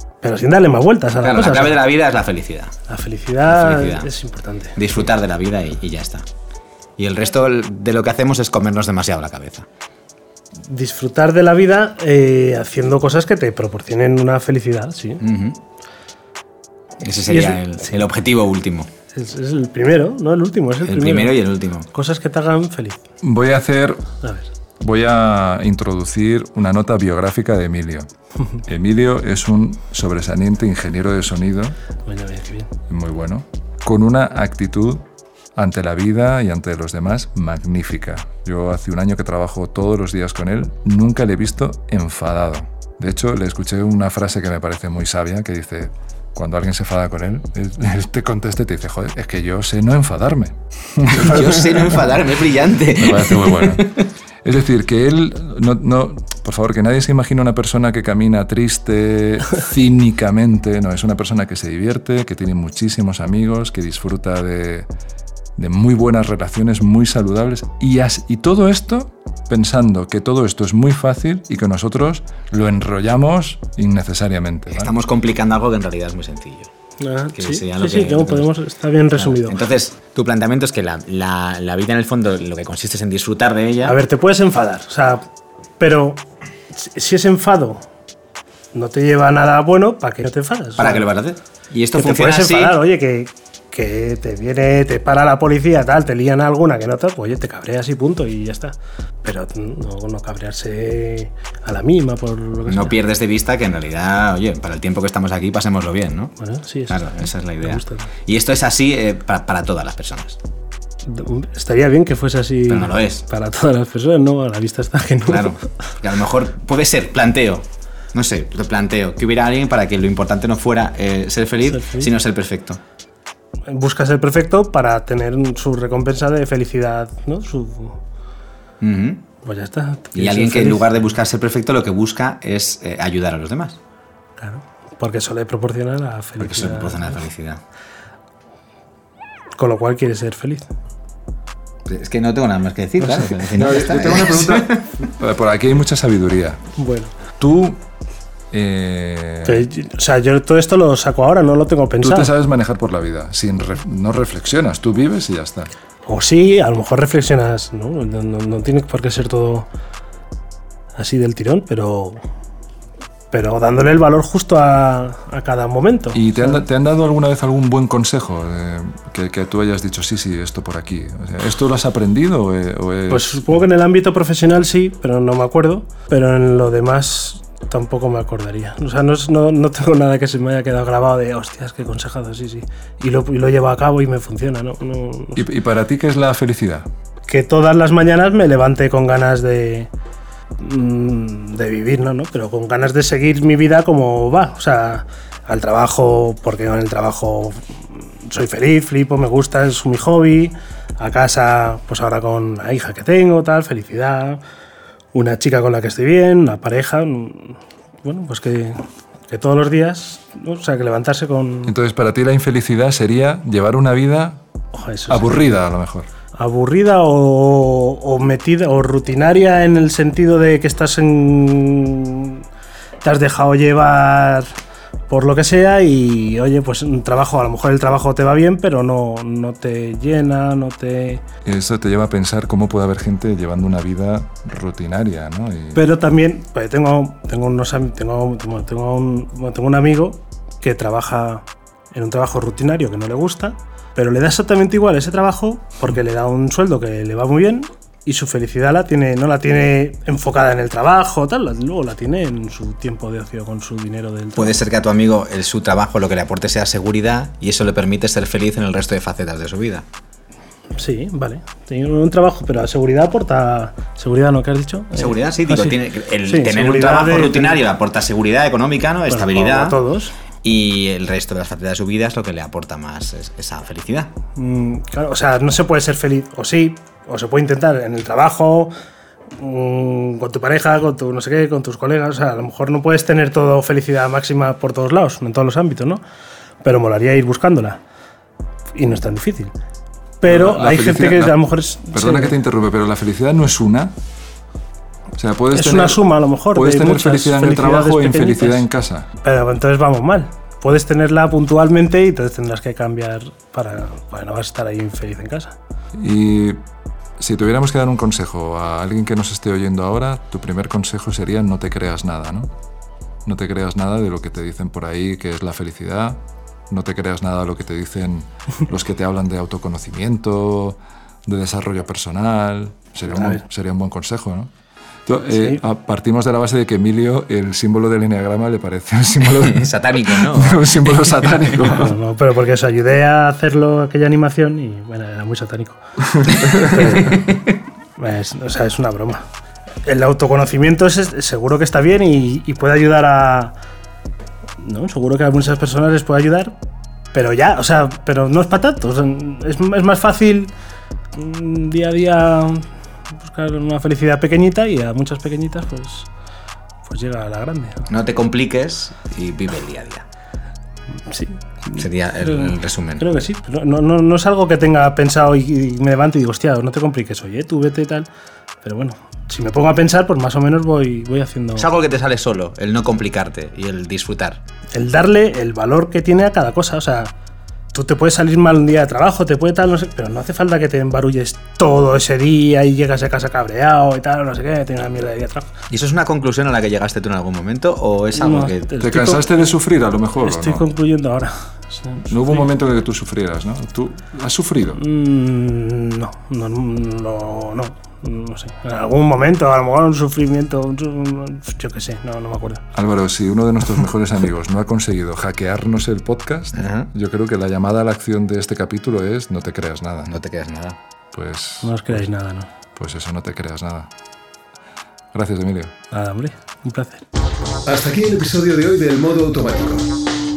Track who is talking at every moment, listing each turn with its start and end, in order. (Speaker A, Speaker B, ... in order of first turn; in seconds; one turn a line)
Speaker A: 0.2-1.8
Speaker B: 1.2-2.7
Speaker A: 2.9-4.9
Speaker B: 3.5-4.1
Speaker B: 4.8-6.2
Speaker B: 7.0-9.7
Speaker A: 10.7-15.2
Speaker B: 15.2-15.6
Speaker B: 17.0-18.9
Speaker A: 17.2-17.9
Speaker A: 19.1-23.0
Speaker B: 20.8-21.9
Speaker C: 23.2-24.0
Speaker A: 24.2-24.5
Speaker C: 24.8-28.1
Speaker C: 28.7-31.8
Speaker A: 32.0-32.7
Speaker C: 32.9-35.0
Speaker C: 35.5-52.1
Speaker B: 51.1-53.9
Speaker C: 53.0-64.9
Speaker C: 65.6-74.9
Speaker B: 74.7-76.7
Speaker A: 77.0-79.6
Speaker B: 77.3-78.5
Speaker B: 79.1-84.0
Speaker A: 83.8-85.2
Speaker A: 85.8-86.2
Speaker A: 86.7-87.8
Speaker A: 88.7-91.1
Speaker B: 90.8-92.8
Speaker A: 91.9-103.0
Speaker B: 102.7-106.3
Speaker A: 106.4-108.1
Speaker B: 106.9-110.4
Speaker A: 111.0-115.6
Speaker B: 112.7-113.2
Speaker B: 115.3-122.8
Speaker A: 121.7-122.1
Speaker A: 123.7-128.0
Speaker B: 128.8-129.2
Speaker A: 129.4-131.0
Speaker B: 130.1-133.8
Speaker A: 134.4-137.2
Speaker B: 136.4-137.6
Speaker A: 139.6-140.6
Speaker B: 141.8-144.8
Speaker C: 143.0-146.6
Speaker A: 146.8-147.1
Speaker C: 147.4-147.8
Speaker C: 148.5-149.6
Speaker A: 149.4-152.3
Speaker C: 152.0-155.7
Speaker A: 156.1-159.7
Speaker A: 160.9-162.2
Speaker A: 163.3-166.6
Speaker C: 166.1-173.4
Speaker A: 173.1-185.5
Speaker C: 185.3-186.9
Speaker A: 187.3-189.9
Speaker A: 190.6-204.4
Speaker A: 205.1-211.7
Speaker C: 211.7-214.4
Speaker A: 214.7-215.4
Speaker C: 215.1-216.1
Speaker A: 216.3-222.4
Speaker A: 223.0-224.5
Speaker A: 225.1-231.2
Speaker C: 231.4-235.8
Speaker A: 235.7-254.6
Speaker B: 254.3-259.8
Speaker A: 260.7-267.6
Speaker B: 264.9-269.8
Speaker A: 269.1-270.1
Speaker B: 270.4-274.1
Speaker A: 274.4-278.7
Speaker A: 279.4-286.0
Speaker A: 286.6-287.8
Speaker A: 288.7-289.5
Speaker A: 290.2-292.4
Speaker C: 290.2-291.4
Speaker C: 291.9-293.9
Speaker C: 295.1-296.0
Speaker A: 295.5-298.7
Speaker C: 296.5-299.1
Speaker A: 299.2-305.5
Speaker C: 305.9-306.6
Speaker C: 307.2-312.5
Speaker C: 313.2-316.2
Speaker C: 316.7-324.5
Speaker A: 323.1-323.4
Speaker C: 325.1-331.9
Speaker A: 325.3-325.6
Speaker B: 329.2-331.2
Speaker A: 331.7-335.8
Speaker C: 336.1-337.1
Speaker A: 336.5-339.2
Speaker A: 339.8-343.5
Speaker A: 344.6-346.5
Speaker A: 347.1-350.5
Speaker A: 351.1-356.1
Speaker A: 356.8-357.9
Speaker B: 357.9-360.0
Speaker A: 361.1-368.1
Speaker B: 361.8-363.1
Speaker A: 368.6-371.7
Speaker B: 371.6-374.4
Speaker A: 374.7-377.1
Speaker A: 377.7-385.5
Speaker B: 385.7-388.7
Speaker A: 388.1-389.5
Speaker C: 388.8-390.6
Speaker A: 390.2-392.4
Speaker C: 392.1-394.8
Speaker A: 394.8-402.6
Speaker C: 402.7-410.1
Speaker B: 406.5-406.9
Speaker B: 410.1-410.8
Speaker C: 411.1-412.1
Speaker A: 411.6-412.5
Speaker C: 412.8-413.9
Speaker C: 415.1-415.7
Speaker A: 415.9-417.0
Speaker D: 417.6-419.9